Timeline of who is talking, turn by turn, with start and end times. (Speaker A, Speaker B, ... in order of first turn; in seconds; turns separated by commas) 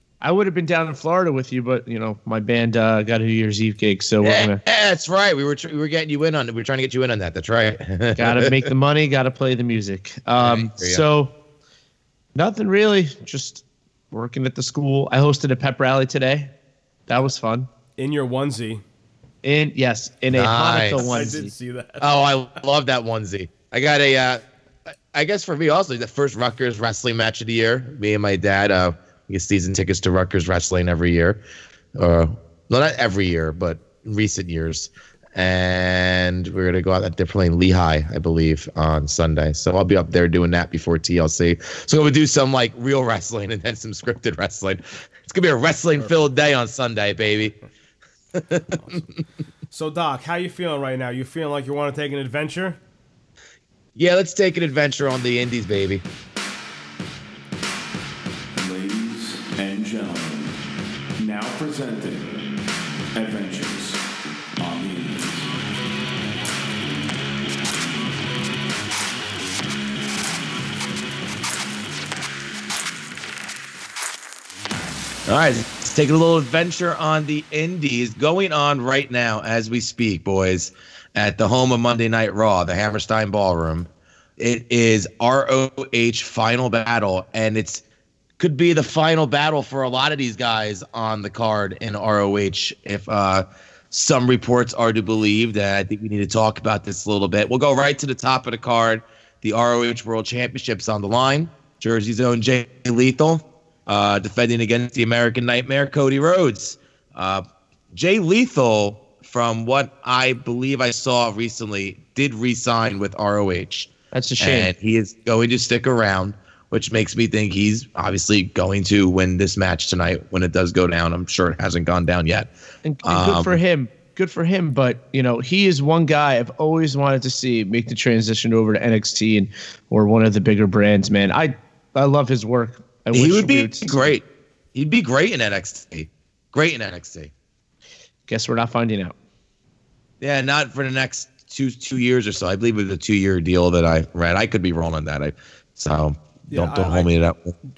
Speaker A: 0.2-4.6, Speaker B: 4.2-8.7, Speaker A: 8.2-11.3, Speaker B: 10.4-11.0, Speaker A: 12.3-16.5, Speaker A: 17.1-17.7, Speaker C: 18.0-18.8, Speaker A: 19.4-21.5, Speaker B: 20.3-21.3, Speaker C: 20.9-22.1, Speaker B: 22.0-24.4, Speaker B: 25.1-31.4, Speaker B: 32.0-47.5, Speaker B: 48.3-49.0, Speaker C: 48.8-49.1, Speaker C: 49.7-52.8, Speaker B: 54.0-56.0, Speaker C: 58.6-60.5, Speaker C: 61.2-62.6, Speaker C: 63.1-64.0, Speaker C: 64.6-65.5, Speaker B: 75.3-87.8, Speaker B: 88.4-122.5, Speaker A: 114.1-114.7, Speaker A: 122.8-134.1, Speaker B: 123.0-123.6, Speaker B: 133.1-137.3, Speaker A: 138.3-139.2, Speaker B: 140.2-147.5, Speaker C: 146.5-147.2